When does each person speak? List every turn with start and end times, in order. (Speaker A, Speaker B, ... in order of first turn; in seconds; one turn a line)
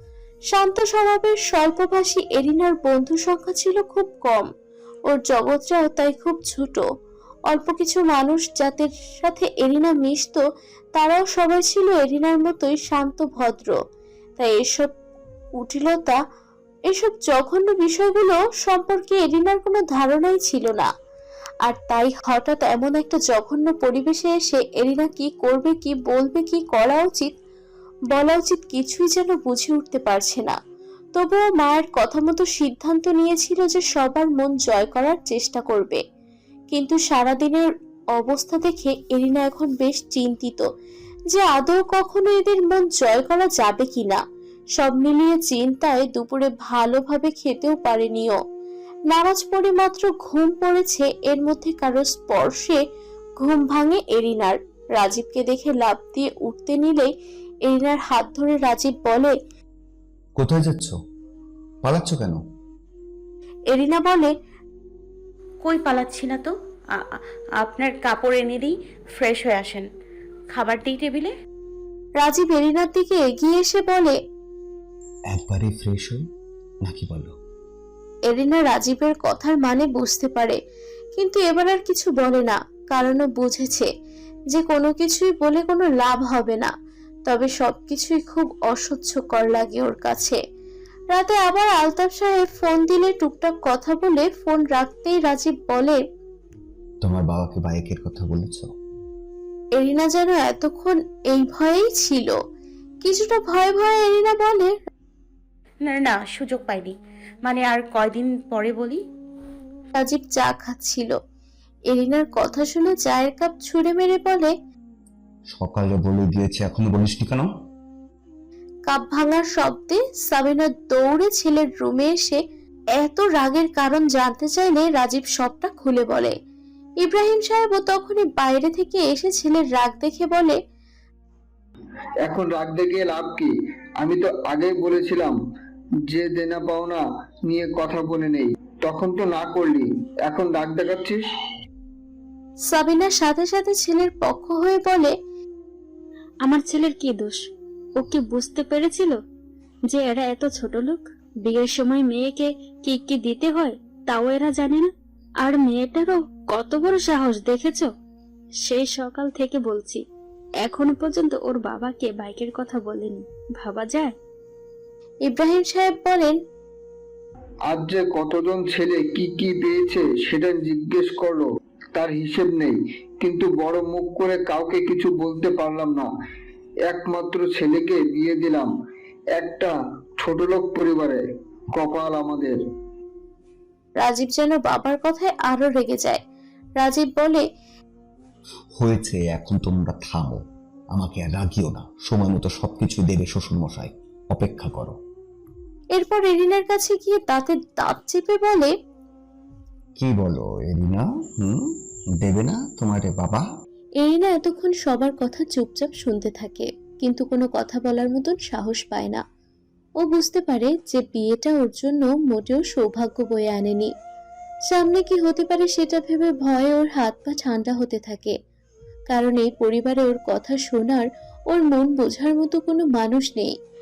Speaker A: 0.5-4.5
Speaker A: 5.1-6.8
Speaker A: 7.5-10.4
Speaker A: 11.0-13.8
Speaker A: 14.4-14.9
Speaker A: 15.6-16.2
Speaker A: 16.9-20.9
Speaker A: 21.7-27.3
Speaker A: 28.1-30.6
Speaker A: 31.2-36.0
Speaker A: 36.7-40.6
Speaker A: 41.3-44.2
Speaker A: 44.8-48.4
Speaker A: 49.1-52.8
Speaker A: 53.4-57.1
Speaker A: 57.7-59.4
Speaker B: 60.4-61.0
Speaker B: 61.8-62.4
Speaker A: 63.7-64.3
Speaker C: 65.6-66.5
Speaker C: 67.6-69.9
Speaker C: 70.5-71.3
Speaker A: 72.2-74.2
Speaker B: 75.3-76.2
Speaker B: 76.8-77.3
Speaker A: 78.3-80.6
Speaker A: 81.2-83.9
Speaker A: 84.5-86.7
Speaker A: 87.3-90.4
Speaker A: 91.1-96.0
Speaker B: 97.0-98.7
Speaker A: 99.8-102.3
Speaker A: 103.0-104.7
Speaker C: 105.8-109.0
Speaker A: 110.0-111.2
Speaker A: 111.9-114.5
Speaker B: 115.5-117.5
Speaker A: 118.9-122.4
Speaker A: 123.0-126.3
Speaker A: 127.0-130.6
Speaker D: 132.2-135.4
Speaker D: 136.1-141.2
Speaker A: 142.7-145.1
Speaker E: 146.4-147.4
Speaker E: 148.0-149.2
Speaker E: 149.9-154.9
Speaker E: 155.4-157.9
Speaker E: 158.7-160.0
Speaker E: 160.6-164.1
Speaker A: 165.3-166.3
Speaker D: 167.7-176.1
Speaker D: 176.9-178.7
Speaker D: 179.4-181.2
Speaker D: 181.8-182.6
Speaker A: 184.0-186.2
Speaker A: 186.8-187.4
Speaker B: 188.8-190.4
Speaker B: 190.9-195.0
Speaker A: 195.9-198.7
Speaker B: 200.0-201.7
Speaker B: 202.2-203.5
Speaker A: 204.0-209.2
Speaker A: 210.0-213.9
Speaker A: 214.7-218.3
Speaker A: 219.1-223.5